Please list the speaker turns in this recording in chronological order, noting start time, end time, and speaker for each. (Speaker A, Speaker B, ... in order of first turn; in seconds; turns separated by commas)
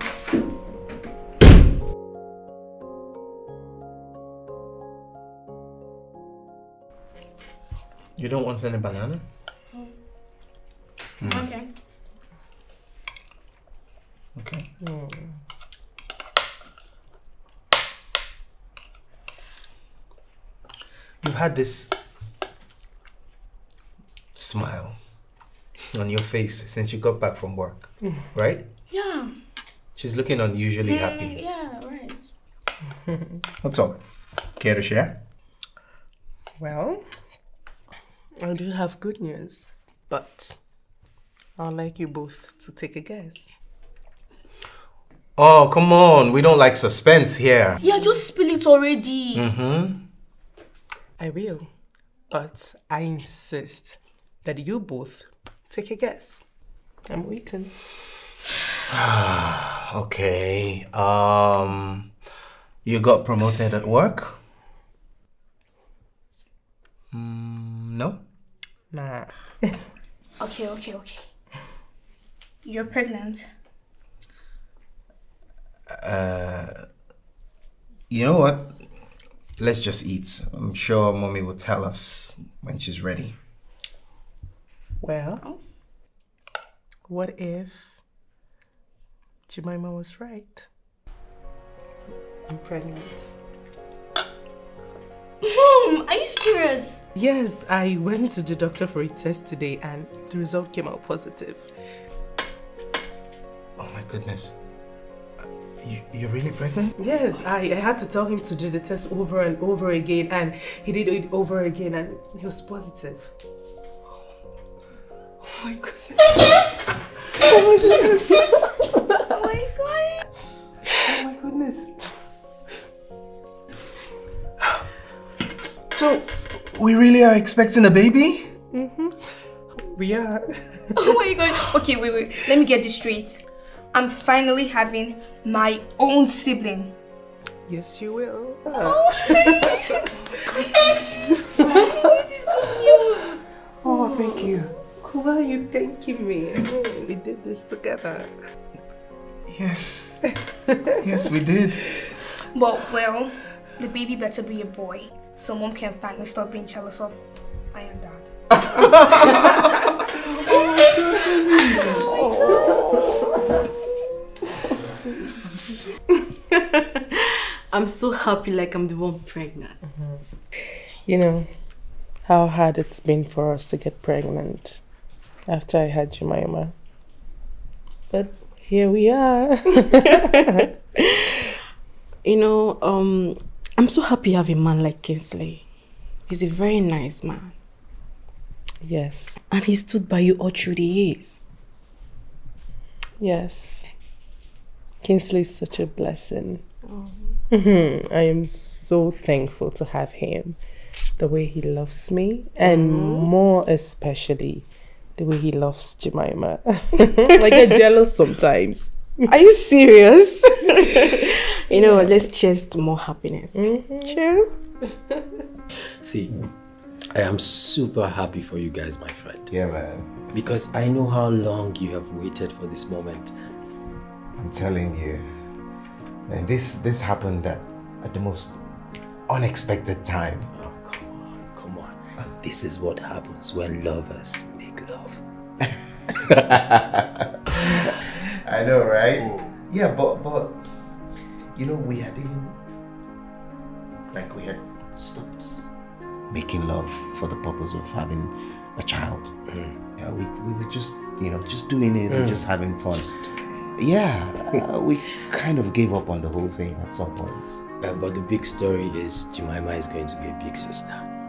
Speaker A: 8.2-9.2, Speaker A: 11.2-11.5, Speaker B: 11.2-11.7, Speaker A: 14.4-14.7, Speaker C: 14.8-15.4, Speaker A: 21.2-21.9, Speaker A: 24.3-25.0, Speaker A: 25.9-28.6, Speaker B: 28.9-29.3, Speaker A: 30.0-31.4, Speaker B: 30.9-32.2, Speaker A: 33.6-34.0, Speaker A: 34.6-35.2, Speaker C: 36.6-37.1, Speaker C: 38.4-40.6, Speaker C: 41.6-43.6, Speaker A: 45.4-47.8, Speaker C: 47.8-48.1, Speaker B: 47.8-49.5, Speaker A: 49.3-50.0, Speaker C: 51.2-51.7, Speaker C: 52.3-56.5, Speaker C: 57.1-57.7, Speaker A: 58.9-62.1, Speaker A: 62.9-64.4, Speaker A: 67.1-68.2, Speaker C: 68.9-69.8, Speaker B: 70.4-71.2, Speaker B: 72.6-73.5, Speaker A: 75.9-76.9, Speaker A: 78.1-78.9, Speaker A: 79.6-83.4, Speaker C: 85.0-85.5, Speaker C: 87.1-88.0, Speaker C: 89.5-90.7, Speaker C: 92.5-93.3, Speaker B: 95.4-97.0, Speaker C: 97.1-101.7, Speaker A: 103.8-104.6, Speaker A: 105.8-107.0, Speaker C: 107.0-113.3, Speaker A: 115.5-116.6, Speaker A: 117.4-118.5, Speaker B: 119.3-120.2, Speaker A: 121.0-121.9, Speaker A: 125.9-128.5, Speaker C: 128.7-129.2, Speaker C: 129.8-131.0, Speaker B: 131.0-137.0, Speaker C: 137.7-140.0, Speaker B: 138.8-143.3, Speaker A: 143.8-144.7, Speaker C: 143.8-148.3, Speaker A: 149.5-150.3, Speaker A: 150.9-152.0, Speaker B: 152.5-158.3, Speaker A: 160.7-161.8, Speaker D: 161.5-163.0, Speaker A: 165.5-165.8, Speaker D: 166.5-169.8, Speaker C: 171.1-171.5, Speaker C: 172.2-174.8, Speaker C: 175.5-176.7, Speaker C: 178.1-180.6, Speaker D: 182.2-185.7, Speaker D: 186.3-187.6, Speaker C: 188.8-189.4, Speaker D: 189.5-191.4, Speaker C: 193.2-193.9, Speaker C: 195.0-196.6, Speaker D: 196.8-197.4, Speaker C: 197.5-200.6, Speaker C: 201.2-209.3, Speaker D: 202.6-203.3, Speaker D: 209.3-214.6, Speaker C: 210.8-211.1, Speaker C: 211.7-212.2, Speaker C: 213.5-214.2, Speaker E: 216.0-216.3, Speaker E: 217.1-219.5, Speaker A: 219.5-220.1, Speaker E: 220.3-223.3, Speaker A: 224.3-225.3, Speaker A: 226.3-228.6, Speaker A: 229.3-230.5, Speaker E: 230.5-235.2, Speaker A: 236.1-240.6, Speaker E: 239.2-239.5, Speaker A: 241.6-242.6, Speaker A: 244.1-245.7, Speaker A: 246.3-249.4, Speaker A: 250.0-253.2, Speaker E: 252.1-252.4, Speaker A: 253.8-257.6, Speaker E: 257.8-261.1